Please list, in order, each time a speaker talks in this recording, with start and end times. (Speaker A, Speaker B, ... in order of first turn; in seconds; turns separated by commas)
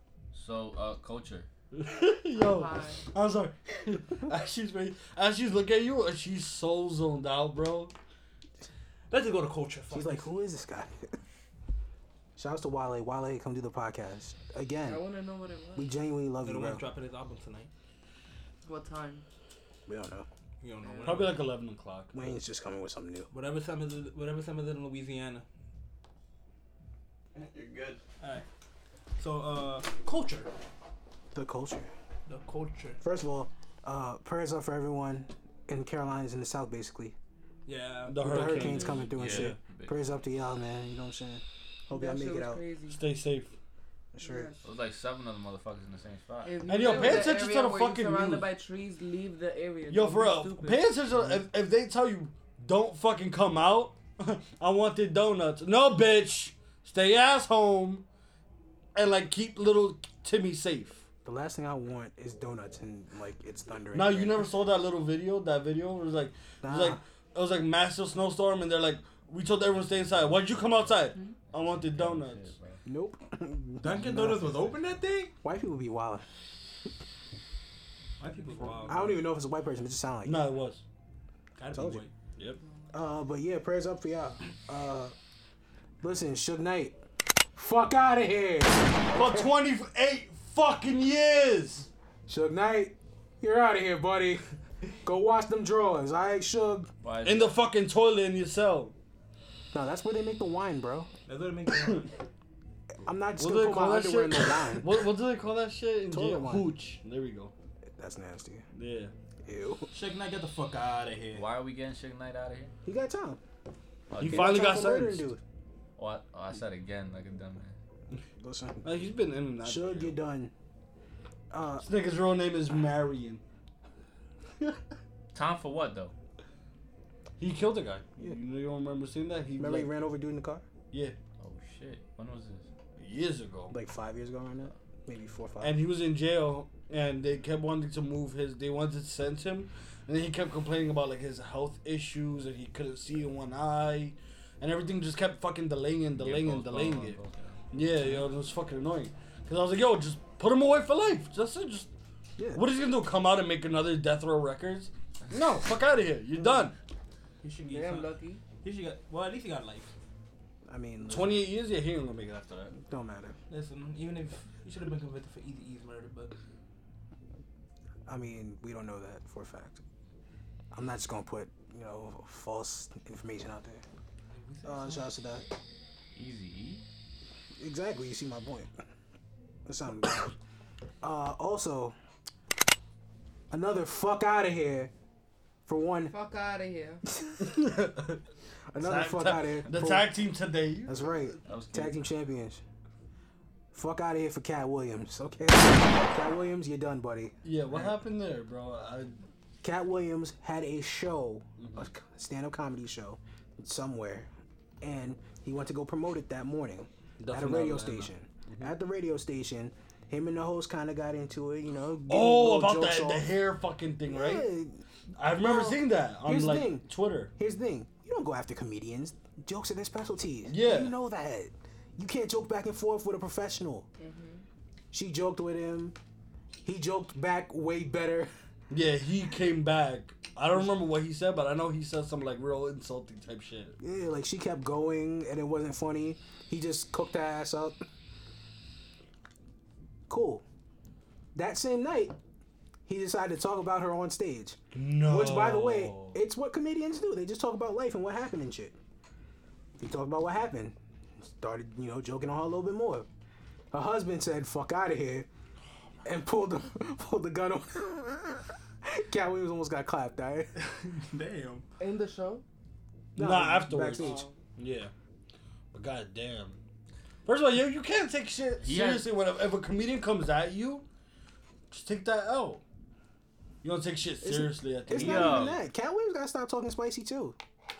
Speaker A: 0.3-1.5, Speaker B: 1.7-7.9, Speaker C: 2.4-3.0, Speaker D: 9.1-10.2, Speaker E: 9.9-11.1, Speaker E: 12.3-15.0, Speaker C: 14.8-15.9, Speaker E: 15.8-16.8, Speaker D: 16.4-17.7, Speaker C: 18.6-19.2, Speaker E: 19.9-20.3, Speaker D: 20.6-21.5, Speaker C: 20.8-21.1, Speaker B: 21.0-22.1, Speaker E: 22.1-23.3, Speaker D: 23.3-25.4, Speaker A: 27.5-28.0, Speaker D: 29.2-30.5, Speaker E: 31.3-31.9, Speaker D: 32.3-33.0, Speaker E: 33.0-37.1, Speaker D: 37.6-39.5, Speaker B: 38.1-39.5, Speaker E: 38.2-42.6, Speaker A: 39.0-39.9, Speaker C: 41.9-43.0, Speaker B: 42.9-43.5, Speaker E: 44.1-44.5, Speaker C: 44.2-44.6, Speaker A: 44.6-46.6, Speaker C: 46.4-50.8, Speaker B: 46.6-48.5, Speaker B: 49.9-58.0, Speaker B: 58.9-61.0, Speaker E: 61.2-64.4, Speaker B: 63.9-72.5, Speaker E: 66.6-67.0, Speaker A: 71.5-72.8, Speaker E: 72.8-74.7, Speaker D: 73.8-75.3, Speaker E: 75.4-76.2, Speaker D: 78.2-79.2, Speaker E: 78.9-80.5, Speaker B: 80.2-80.8, Speaker D: 81.5-82.1, Speaker E: 81.7-82.0, Speaker E: 82.9-85.1, Speaker E: 86.0-87.0, Speaker E: 87.5-89.5, Speaker B: 89.1-91.9, Speaker E: 92.3-94.4, Speaker E: 95.0-96.9, Speaker A: 97.0-97.5, Speaker B: 97.2-98.9, Speaker E: 99.7-101.1, Speaker D: 101.2-102.1, Speaker E: 103.0-105.0, Speaker B: 103.4-107.5, Speaker E: 106.1-106.7, Speaker E: 108.0-108.6, Speaker B: 108.7-109.1, Speaker E: 109.4-109.9, Speaker D: 109.9-111.4, Speaker A: 111.3-112.7, Speaker E: 112.8-113.4, Speaker A: 114.1-114.6, Speaker B: 114.2-115.3, Speaker E: 114.2-115.4, Speaker A: 116.0-117.8, Speaker E: 118.4-119.0, Speaker B: 118.8-120.2, Speaker E: 119.6-120.5, Speaker E: 121.5-121.8, Speaker B: 121.8-123.4, Speaker A: 125.3-126.1, Speaker B: 127.4-129.9, Speaker E: 129.6-130.6, Speaker A: 131.4-132.7, Speaker B: 133.0-133.8, Speaker E: 133.7-135.8, Speaker B: 135.6-147.2, Speaker A: 146.2-147.6, Speaker B: 147.7-151.9, Speaker E: 152.4-152.6, Speaker B: 152.5-156.8, Speaker D: 157.4-158.1, Speaker C: 157.7-158.4, Speaker D: 158.6-159.9, Speaker E: 160.7-161.4, Speaker B: 161.1-162.7, Speaker E: 162.7-163.4, Speaker D: 163.5-166.3, Speaker E: 168.1-169.8, Speaker E: 170.7-173.8, Speaker D: 174.3-175.1, Speaker E: 174.6-175.5, Speaker A: 176.1-176.8, Speaker E: 177.6-178.7, Speaker E: 179.7-180.3, Speaker E: 181.0-181.9, Speaker E: 183.5-184.9, Speaker E: 185.7-186.1, Speaker C: 186.1-187.0, Speaker E: 187.2-187.6, Speaker B: 187.4-188.2, Speaker E: 188.7-190.1, Speaker B: 188.8-190.9, Speaker E: 190.9-192.6, Speaker A: 191.4-192.1, Speaker E: 193.7-197.3, Speaker B: 197.4-199.2, Speaker E: 199.6-204.3, Speaker B: 201.6-201.9, Speaker E: 204.8-213.3, Speaker B: 207.2-208.7, Speaker B: 212.1-214.5, Speaker E: 214.1-214.8, Speaker B: 215.2-217.3, Speaker E: 215.4-223.9, Speaker B: 220.5-220.9, Speaker C: 224.0-224.4, Speaker E: 224.9-225.9, Speaker E: 226.6-228.3, Speaker B: 228.7-233.8, Speaker E: 233.8-237.8, Speaker E: 240.1-240.4, Speaker E: 241.3-242.2, Speaker E: 242.9-248.7, Speaker B: 244.7-246.2, Speaker E: 249.8-253.1, Speaker E: 253.7-255.3, Speaker E: 256.0-260.5, Speaker D: 260.6-261.6, Speaker C: 261.8-262.4, Speaker B: 263.1-264.9, Speaker E: 263.2-264.2, Speaker C: 263.9-264.3, Speaker B: 265.7-266.6, Speaker B: 267.2-270.8, Speaker A: 268.6-269.1, Speaker B: 271.7-272.6, Speaker B: 273.6-275.5, Speaker E: 274.2-277.4, Speaker A: 274.9-275.6